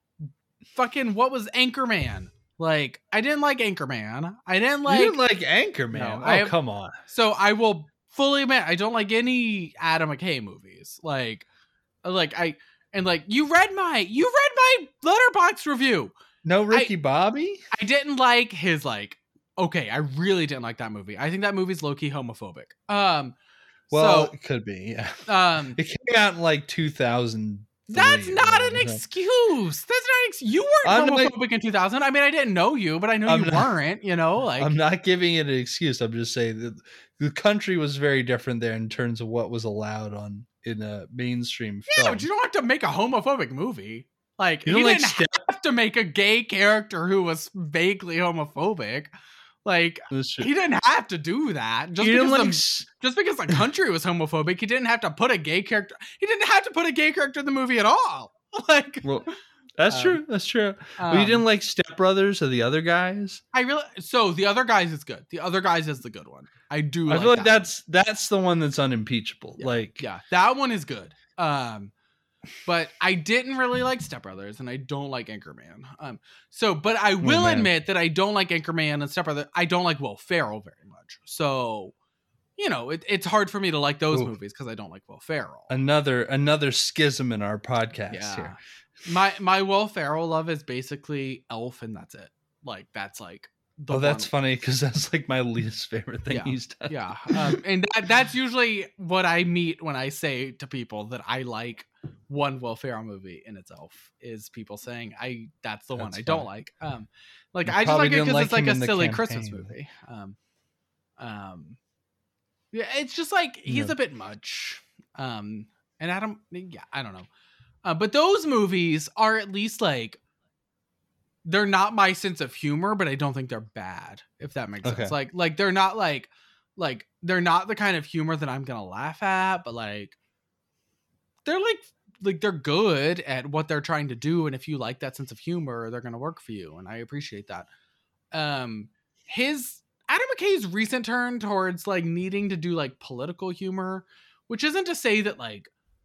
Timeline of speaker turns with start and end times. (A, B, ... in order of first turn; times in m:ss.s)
0:00.7-0:05.2 A
0:04.8-0:07.0 B
0:05.9-0:11.5 A
0:12.0-0:16.1 A
0:16.4-0:17.6 B
0:17.7-0:23.3 A
0:23.9-0:24.3 A
0:23.9-0:29.0 B
0:25.3-0:25.8 A
0:27.9-0:34.7 A
0:30.8-0:31.3 B
0:33.3-0:33.7 B
0:34.6-0:42.2 B
0:41.9-0:49.1 A
0:44.6-0:45.4 B
0:49.6-0:59.4 A
0:50.1-0:50.5 B
0:52.0-0:52.9 B
0:59.0-1:03.4 B
0:59.9-1:00.2 A
1:01.0-1:01.4 A
1:03.5-1:07.6 A
1:07.1-1:10.0 B
1:09.6-1:11.9 A
1:12.6-1:21.9 A
1:17.2-1:17.7 B
1:22.6-1:25.7 A
1:25.7-1:28.5 B
1:28.1-1:34.3 A
1:33.9-1:37.6 B
1:36.3-1:50.4 A
1:46.0-1:46.5 B
1:47.6-1:49.7 B
1:51.2-1:51.8 A
1:52.7-1:57.3 A
1:53.7-1:53.9 B
1:57.8-2:00.2 A
2:01.4-2:10.2 A
2:04.8-2:05.1 B
2:11.4-2:17.7 A
2:18.3-2:25.7 A